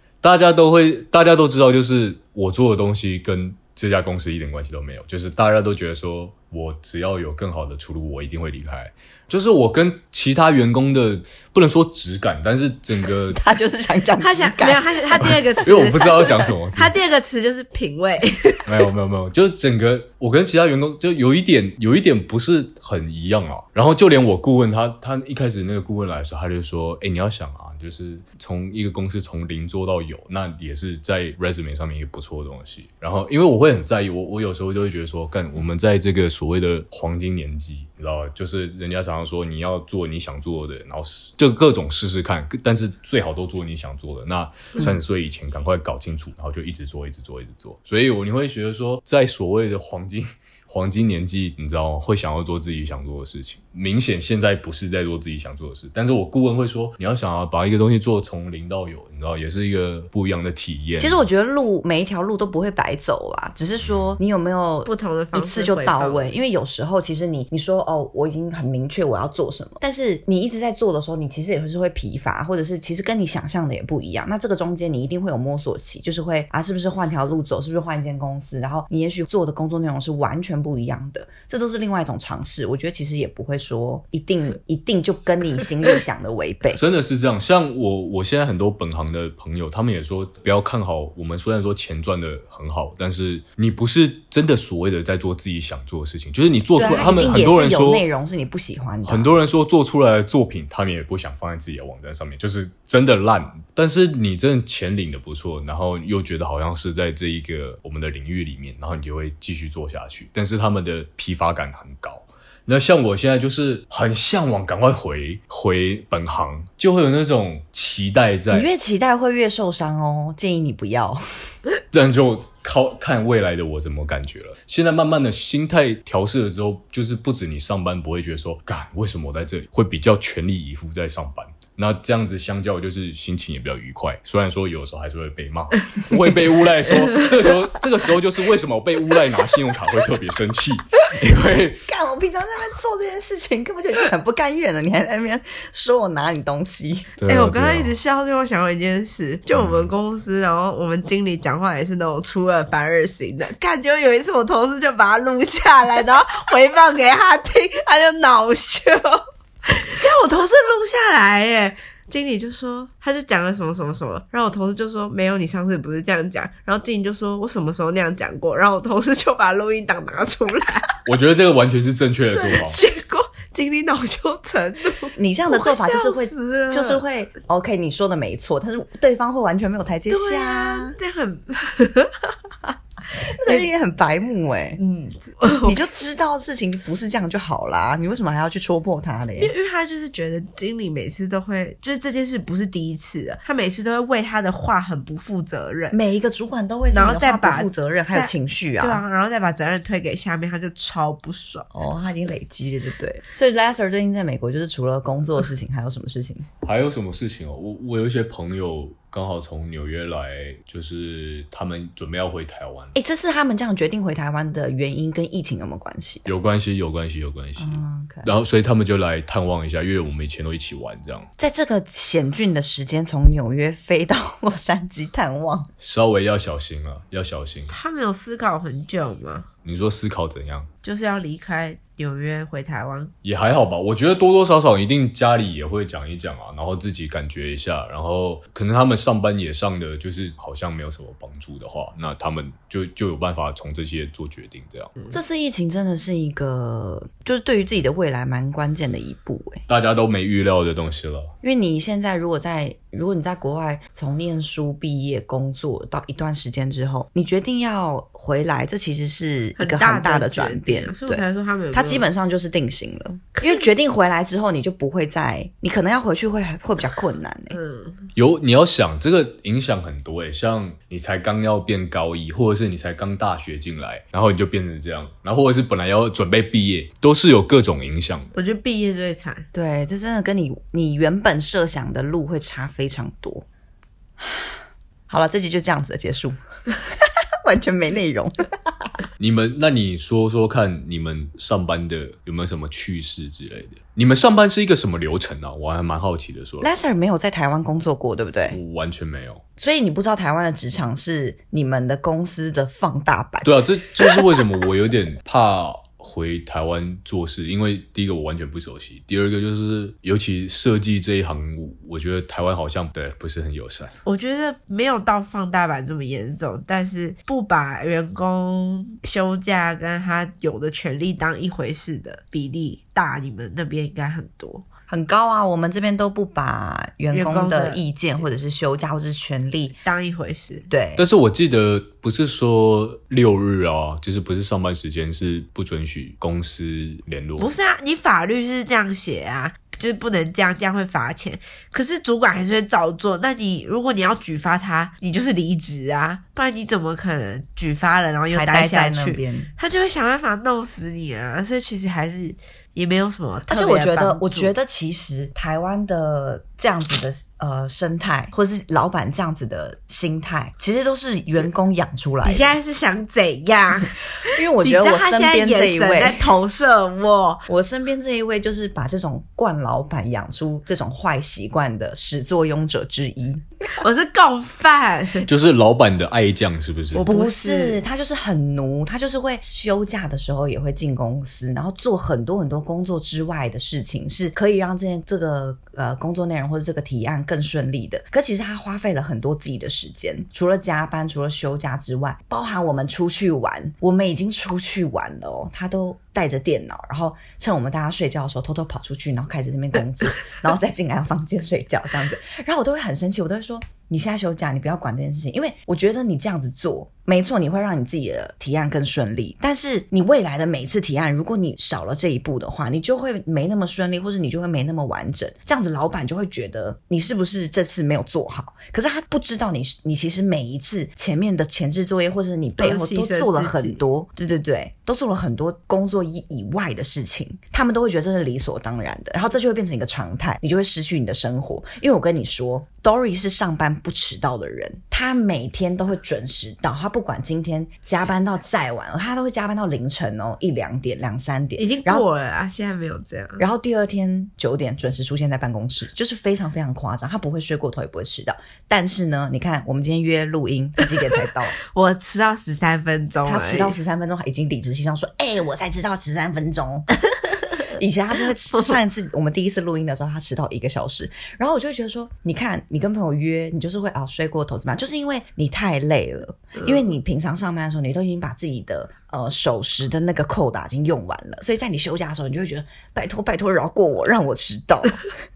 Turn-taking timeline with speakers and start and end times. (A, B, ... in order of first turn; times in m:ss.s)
0:00.2-0:13.4 A
0:13.3-0:15.4 B
0:14.2-0:18.8 C
0:15.6-0:17.0 A
0:16.2-0:16.5 B
0:18.7-1:01.2 A
1:01.0-1:26.8 B
1:03.8-1:04.2 A
1:04.9-1:06.3 C
1:26.7-1:38.1 A
1:36.8-1:39.3 B
1:37.0-1:37.3 C
1:39.0-1:58.7 A
1:58.5-2:01.5 B
2:01.9-2:21.8 A
2:21.9-2:27.1 B
2:27.2-2:27.9 A
2:27.3-2:50.9 C
2:29.5-2:29.9 A
2:51.0-2:52.8 A
2:52.3-2:57.1 C
2:55.2-3:01.0 B
3:00.1-3:02.7 C
3:03.2-3:04.8 B
3:03.4-3:03.7 C
3:04.8-3:05.8 C
3:05.6-3:09.5 B
3:09.4-3:16.0 C
3:15.9-3:19.0 B
3:16.9-3:21.7 C
3:21.7-3:26.5 B
3:26.6-3:33.0 A
3:33.0-3:36.3 B
3:36.3-3:41.3 A
3:37.6-3:38.3 B
3:41.4-3:45.7 B
3:45.8-3:47.8 A
3:47.7-3:49.5 C
3:49.6-3:50.7 A
3:50.8-3:53.1 C
3:53.2-4:04.9 A
4:05.1-4:09.6 B
4:09.7-4:11.3 A
4:11.4-4:27.6 B
4:19.6-4:22.3 C
4:23.4-4:23.7 C
4:27.5-4:28.1 C
4:28.2-4:38.3 A
4:38.3-4:39.5 C
4:39.5-4:43.4 B
4:44.2-4:44.6 B
4:45.1-4:49.0 B
4:49.2-4:56.7 A
4:56.6-4:58.6 B
4:58.5-4:59.4 A
4:59.6-5:04.4 B
5:03.4-5:14.0 A
5:14.0-5:24.6 C
5:24.9-5:29.8 B
5:27.1-5:27.8 C
5:29.8-5:30.7 C
5:30.7-5:31.0 B
5:31.0-5:37.6 A
5:37.4-5:54.5 C
5:48.3-5:49.5 B
5:53.5-6:02.6 B
6:02.2-6:07.4 C
6:04.2-6:06.3 B
6:07.5-6:13.4 B
6:13.8-6:15.3 C
6:15.2-6:17.1 A
6:16.9-6:17.8 C
6:17.0-7:22.1 B
7:02.6-7:03.8 C
7:21.6-7:23.4 C
7:23.4-7:31.6 B
7:31.7-7:33.8 C
7:33.2-7:36.9 B
7:37.7-7:55.1 B
7:46.6-7:46.8 C